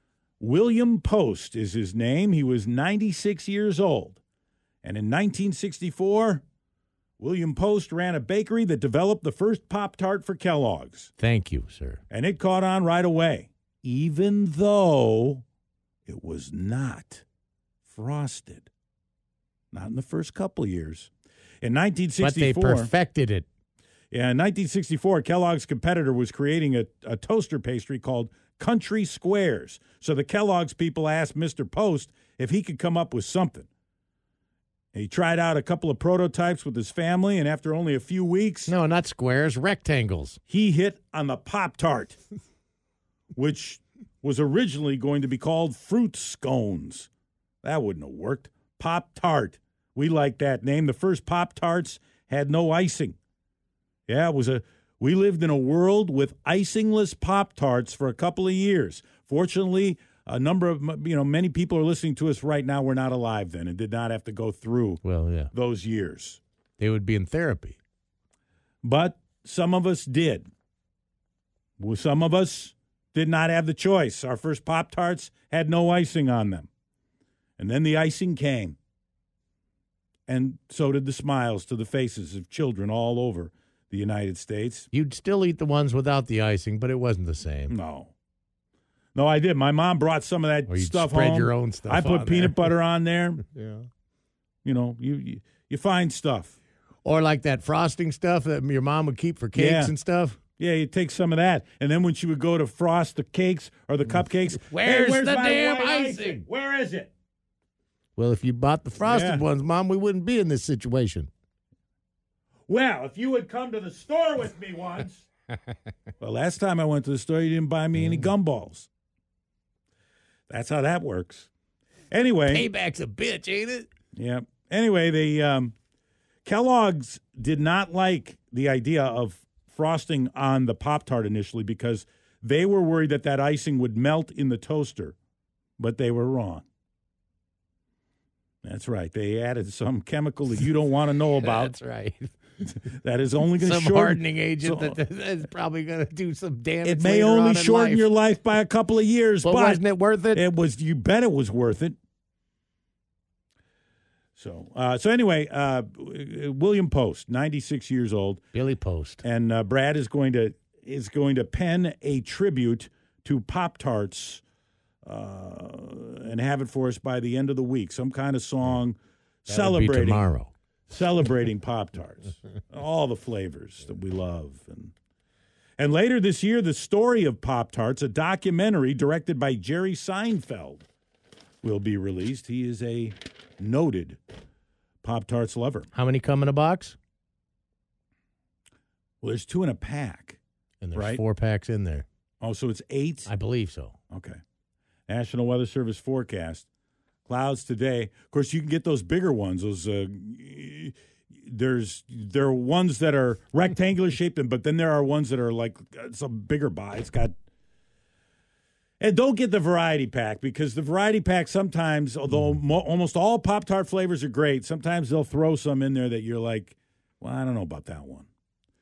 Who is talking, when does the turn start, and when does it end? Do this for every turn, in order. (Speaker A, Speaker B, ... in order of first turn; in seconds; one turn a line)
Speaker A: 0.4-4.2
Speaker A: 4.8-6.4
Speaker A: 7.2-11.1
Speaker B: 11.2-12.0
Speaker A: 12.1-15.4
Speaker A: 16.1-17.2
Speaker A: 17.9-18.7
Speaker A: 19.7-21.1
Speaker A: 21.6-22.9
Speaker B: 22.2-23.5
Speaker A: 24.1-33.7
Speaker A: 34.9-38.7
Speaker B: 38.7-40.4
Speaker A: 40.5-42.2
Speaker A: 43.4-47.1
Speaker A: 47.6-53.2
Speaker A: 54.1-66.4
Speaker B: 65.0-65.5
Speaker B: 66.8-67.8
Speaker A: 68.8-70.5
Speaker A: 71.8-76.7
Speaker A: 77.6-78.8
Speaker A: 80.3-84.9
Speaker B: 84.9-87.7
Speaker A: 87.7-88.1
Speaker A: 89.2-93.4
Speaker B: 90.7-92.7
Speaker B: 93.5-93.8
Speaker A: 94.6-96.6
Speaker B: 97.0-100.4
Speaker A: 99.5-99.9
Speaker A: 100.6-107.1
Speaker B: 104.5-106.5
Speaker B: 108.2-111.3
Speaker A: 109.0-109.4
Speaker A: 112.7-115.3
Speaker A: 116.2-118.9
Speaker B: 118.0-118.3
Speaker A: 120.5-121.5
Speaker A: 122.1-122.7
Speaker B: 122.5-123.9
Speaker A: 124.2-125.7
Speaker A: 126.5-135.2
Speaker A: 135.8-136.7
Speaker A: 138.6-141.7
Speaker B: 141.4-142.3
Speaker A: 142.8-145.0
Speaker B: 143.6-148.1
Speaker A: 146.8-149.8
Speaker B: 149.4-150.4
Speaker A: 150.3-152.0
Speaker A: 154.4-158.4
Speaker B: 158.5-159.2
Speaker A: 159.2-164.4
Speaker A: 165.1-170.3
Speaker B: 169.5-170.5
Speaker A: 170.9-174.9
Speaker A: 175.8-180.9
Speaker A: 181.6-184.2
Speaker A: 185.0-185.9
Speaker B: 185.9-187.0
Speaker A: 189.2-190.4
Speaker B: 190.8-192.1
Speaker A: 190.9-191.2
Speaker A: 192.4-193.3
Speaker B: 193.3-194.0
Speaker A: 194.1-194.4
Speaker A: 195.1-196.7
Speaker A: 197.3-207.3
Speaker A: 209.0-218.3